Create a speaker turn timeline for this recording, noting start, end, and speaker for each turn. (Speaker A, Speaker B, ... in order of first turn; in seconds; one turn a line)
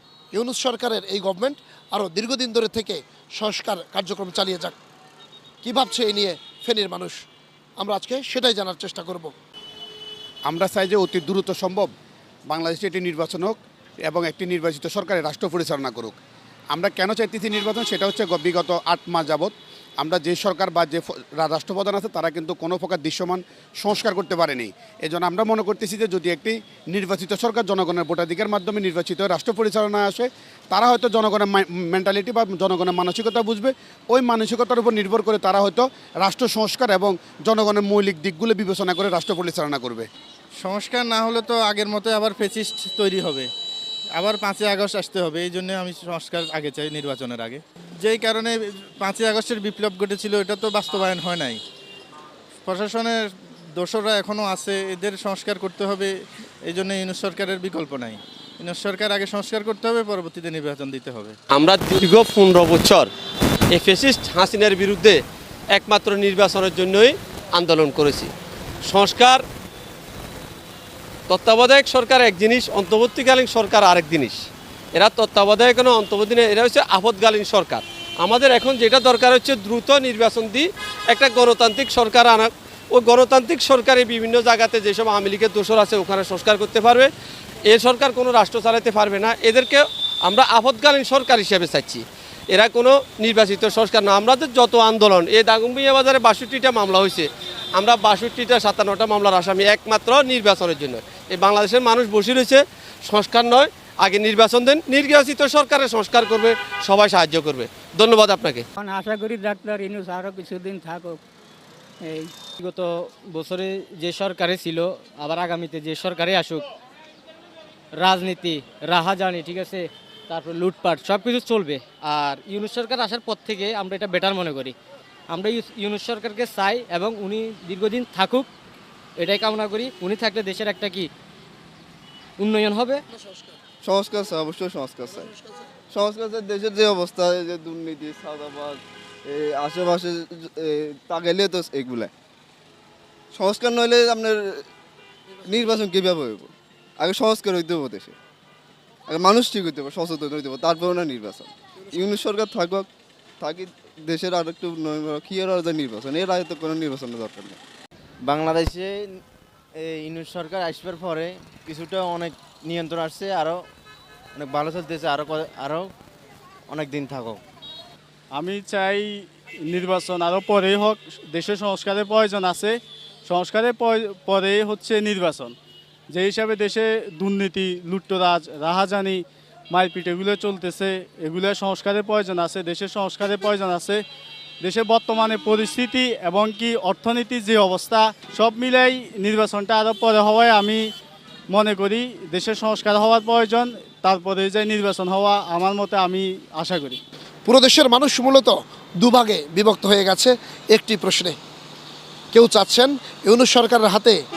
Speaker A: 0.3-4.8
Speaker A: 5.6-7.2
Speaker A: 7.8-9.3
Speaker B: 10.5-11.9
Speaker B: 12.5-16.2
Speaker B: 16.7-40.1
Speaker C: 40.6-43.5
Speaker C: 44.2-51.6
Speaker C: 52.6-61.4
Speaker D: 61.5-63.1
Speaker D: 63.7-65.2
Speaker D: 65.8-68.3
Speaker D: 68.9-69.4
Speaker D: 71.3-74.4
Speaker D: 75.0-87.1
Speaker D: 87.7-108.7
Speaker E: 108.8-111.2
Speaker E: 112.0-112.3
Speaker F: 112.6-116.7
Speaker F: 118.0-124.8
Speaker F: 125.3-128.5
Speaker F: 129.2-131.1
Speaker F: 132.4-133.0
Speaker G: 133.8-135.3
Speaker G: 135.9-142.1
Speaker G: 143.3-144.6
Speaker G: 145.4-148.2
Speaker G: 149.1-152.9
Speaker G: 153.4-157.6
Speaker H: 158.3-159.1
Speaker H: 159.8-163.6
Speaker H: 164.4-165.9
Speaker H: 166.7-167.4
Speaker I: 168.3-175.6
Speaker I: 176.1-184.0
Speaker I: 184.6-190.9
Speaker I: 191.5-197.0
Speaker A: 197.5-201.4
Speaker A: 202.3-204.2